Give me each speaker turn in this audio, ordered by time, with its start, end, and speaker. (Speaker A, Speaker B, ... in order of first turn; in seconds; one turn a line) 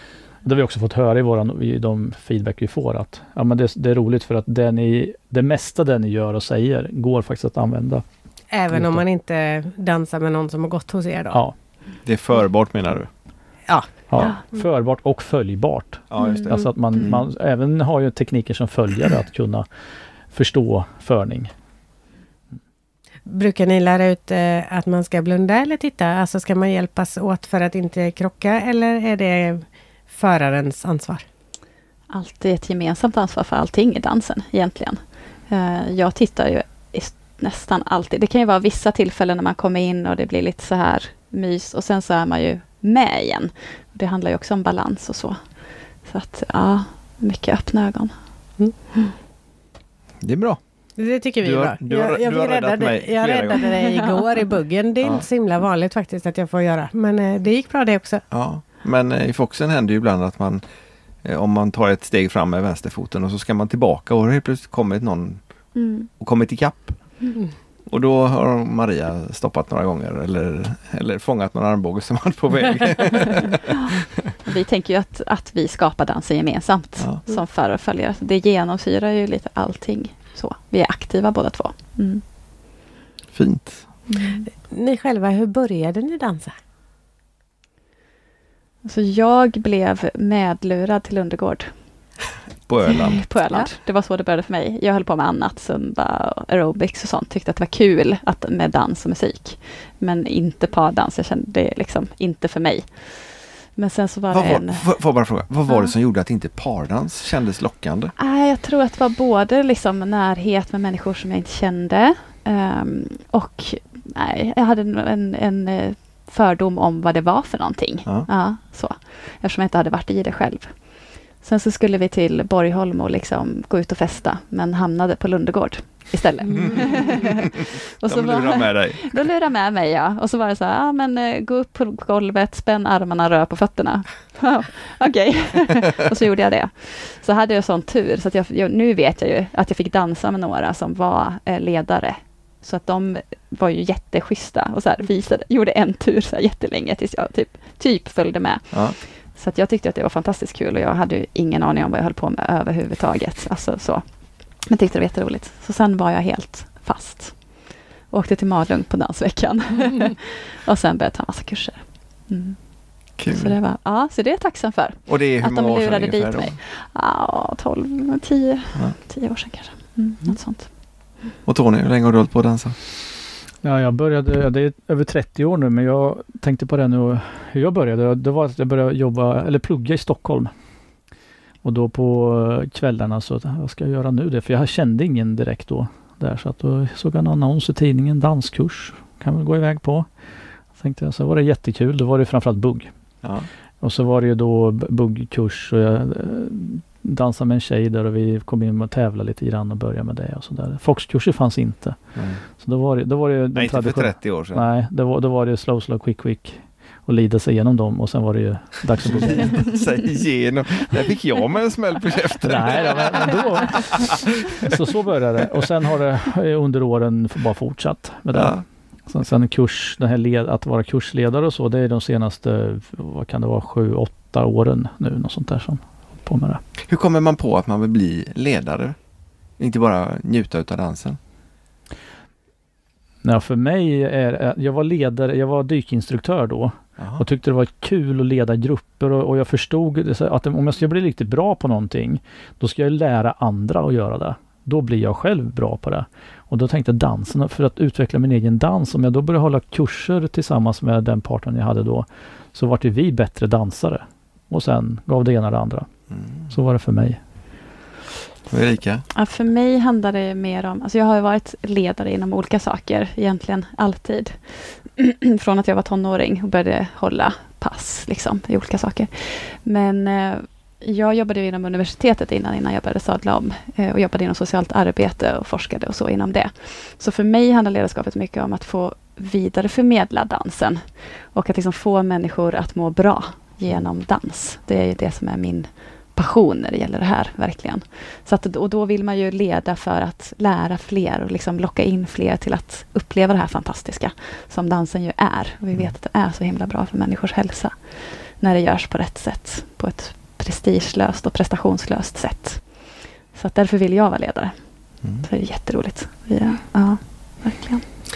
Speaker A: 0.4-8.0
Speaker B: 8.5-11.4
Speaker A: 8.7-9.0
Speaker C: 12.0-13.1
Speaker B: 13.7-14.6
Speaker A: 14.1-19.7
Speaker C: 16.1-17.2
Speaker D: 16.2-17.0
Speaker B: 16.2-16.7
Speaker A: 20.3-21.5
Speaker B: 23.2-31.2
Speaker D: 32.1-48.1
Speaker C: 50.2-50.6
Speaker B: 51.0-58.2
Speaker C: 51.4-53.7
Speaker C: 58.3-60.6
Speaker C: 61.2-67.2
Speaker D: 65.8-66.1
Speaker C: 67.9-73.8
Speaker D: 74.5-82.2
Speaker C: 83.3-83.9
Speaker D: 84.1-84.5
Speaker B: 84.5-86.5
Speaker D: 88.8-91.7
Speaker C: 92.7-93.3
Speaker D: 92.9-104.9
Speaker C: 104.3-108.1
Speaker D: 105.7-105.9
Speaker D: 108.2-170.7
Speaker C: 126.5-127.5
Speaker C: 128.1-129.2
Speaker C: 148.7-149.0
Speaker C: 163.2-163.6
Speaker C: 165.1-166.6
Speaker C: 171.4-172.8
Speaker A: 173.6-180.5
Speaker A: 181.6-190.1
Speaker A: 190.7-192.9
Speaker C: 193.2-193.5
Speaker A: 193.8-209.7
Speaker C: 202.2-202.4
Speaker C: 203.5-204.7
Speaker C: 209.0-213.4
Speaker A: 212.4-226.6
Speaker C: 213.9-214.3
Speaker C: 218.3-218.6
Speaker C: 226.9-229.0
Speaker C: 229.6-231.2
Speaker A: 233.2-255.9
Speaker C: 237.0-237.2
Speaker C: 256.1-256.5
Speaker A: 256.5-257.2
Speaker C: 258.5-259.1
Speaker D: 259.1-304.6
Speaker D: 305.1-307.8